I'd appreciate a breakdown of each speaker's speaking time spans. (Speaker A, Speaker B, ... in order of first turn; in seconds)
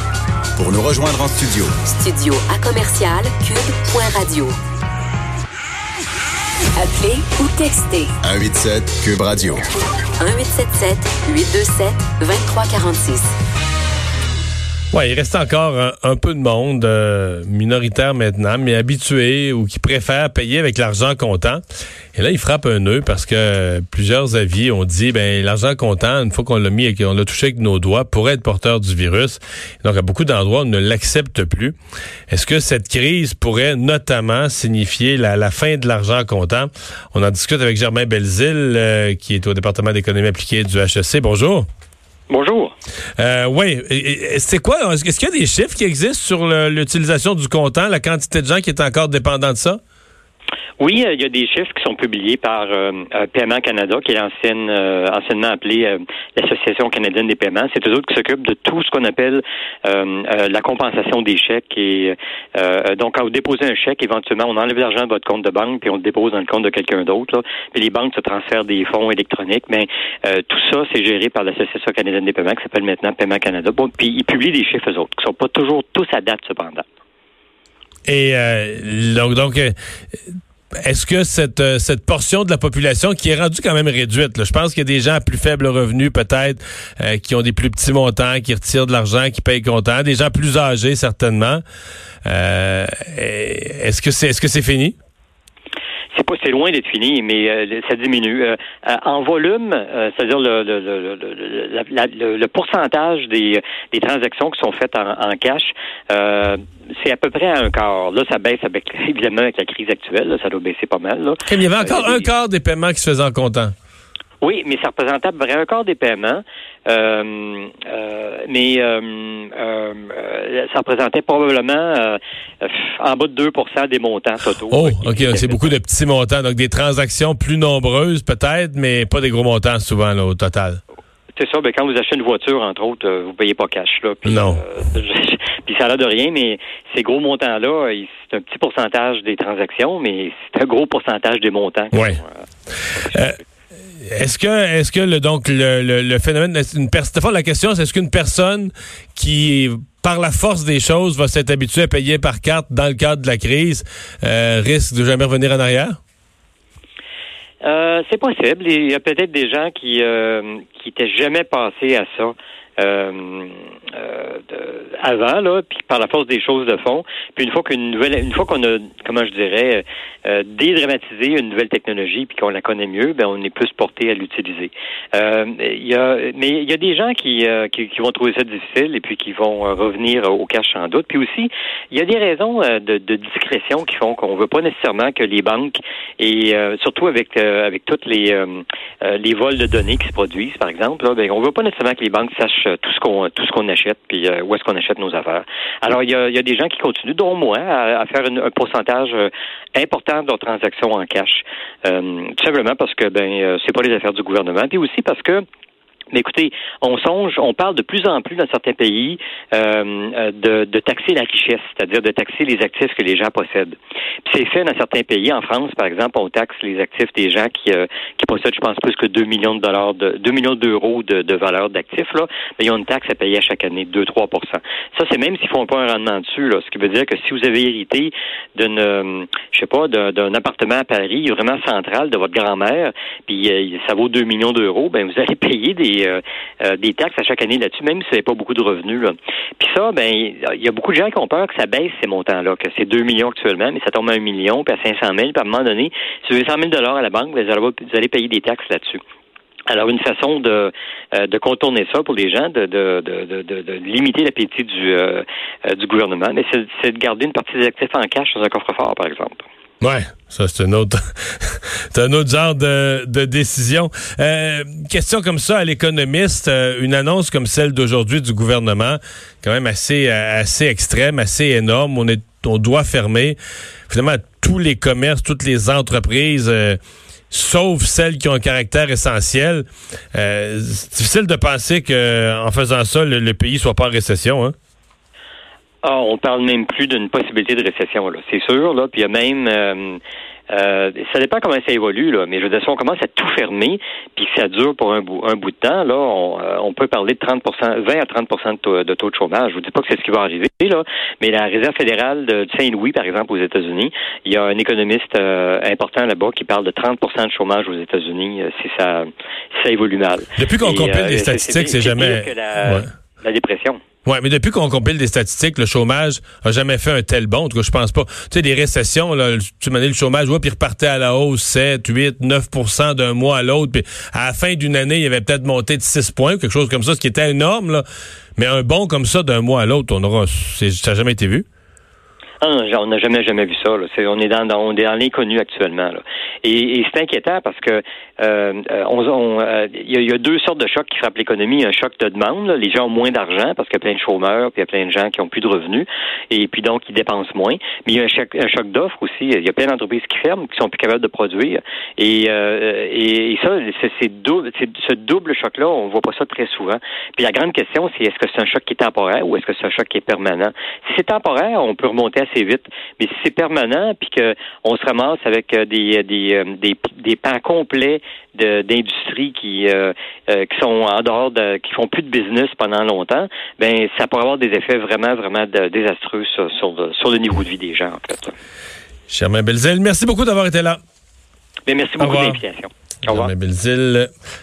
Speaker A: 0.6-1.7, 8.2-9.6
Speaker B: 1.9-4.5, 6.8-8.2, 10.2-13.3
Speaker C: 14.9-21.6, 22.1-31.7, 32.3-41.6, 43.2-49.8, 78.0-79.7, 80.8-91.6, 92.2-94.9, 111.5-113.7, 124.7-130.8, 134.2-134.6, 141.9-142.2, 144.0-156.0, 259.8-276.8, 277.3-284.5, 310.4-312.9, 314.1-327.8, 328.4-331.4, 379.1-380.8, 382.0-382.4, 383.1-384.1
Speaker D: 42.3-42.7, 50.8-76.8, 96.1-112.3, 114.4-125.7, 131.3-143.3, 157.6-205.4, 206.1-249.0, 249.7-259.4, 285.8-290.0, 290.5-313.8, 332.4-378.3, 381.6-383.3